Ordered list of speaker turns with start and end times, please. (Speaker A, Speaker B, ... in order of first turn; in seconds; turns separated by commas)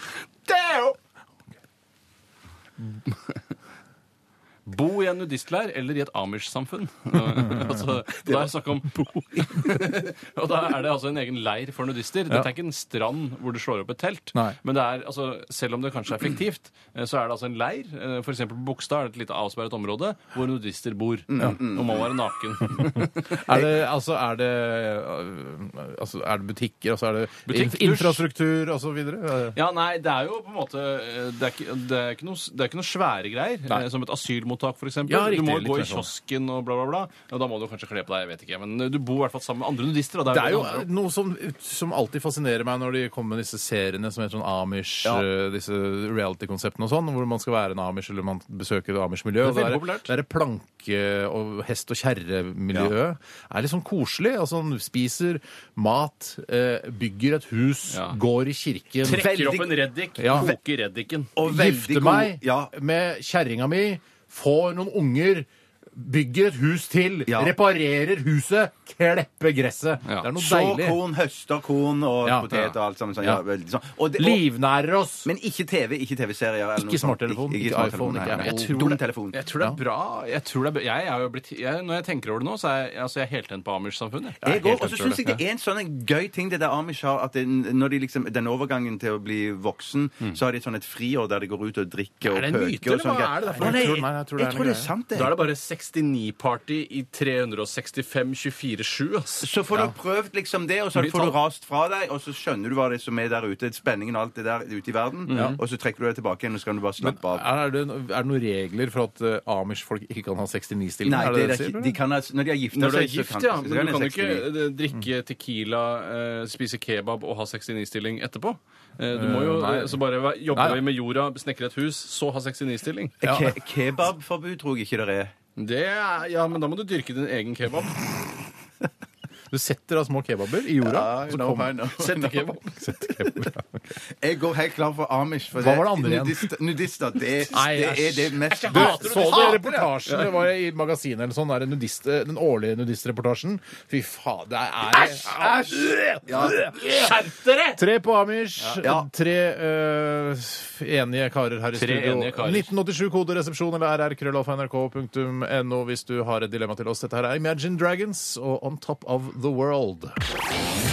Speaker A: 0.5-0.9, Speaker A: 4.7-23.5, Speaker B: 7.4-7.7, Speaker C: 21.3-22.1, Speaker B: 23.4-29.6, Speaker A: 27.4-28.2, Speaker A: 29.5-40.9, Speaker B: 35.0-36.1, Speaker B: 40.3-59.2, Speaker A: 49.4-50.1, Speaker A: 57.9-58.2, Speaker A: 59.0-61.3, Speaker C: 59.0-59.8, Speaker B: 60.2-60.5, Speaker C: 61.4-62.7, Speaker B: 61.4-71.0, Speaker C: 67.3-67.5, Speaker C: 70.3-74.5, Speaker B: 72.2-72.7, Speaker B: 74.2-75.3, Speaker C: 75.2-79.4, Speaker B: 76.8-78.8, Speaker A: 78.3-85.4, Speaker C: 84.4-95.4, Speaker B: 92.2-94.9, Speaker A: 93.4-93.9, Speaker A: 95.1-99.5, Speaker C: 99.4-107.5, Speaker A: 101.0-101.3, Speaker A: 105.3-105.6, Speaker B: 105.3-105.6, Speaker B: 107.0-112.0, Speaker C: 111.0-114.5, Speaker A: 112.7-123.2, Speaker B: 119.1-120.0, Speaker B: 120.5-120.8, Speaker C: 123.2-125.3, Speaker B: 123.2-123.5, Speaker A: 125.6-128.2, Speaker B: 129.5-133.8, Speaker C: 130.8-132.5, Speaker C: 134.1-139.9, Speaker B: 135.6-136.5, Speaker B: 137.5-146.8, Speaker A: 138.5-140.3, Speaker C: 146.2-146.8, Speaker A: 146.8-147.8, Speaker B: 147.8-160.2, Speaker A: 148.6-148.8, Speaker C: 148.8-149.1, Speaker A: 151.7-152.7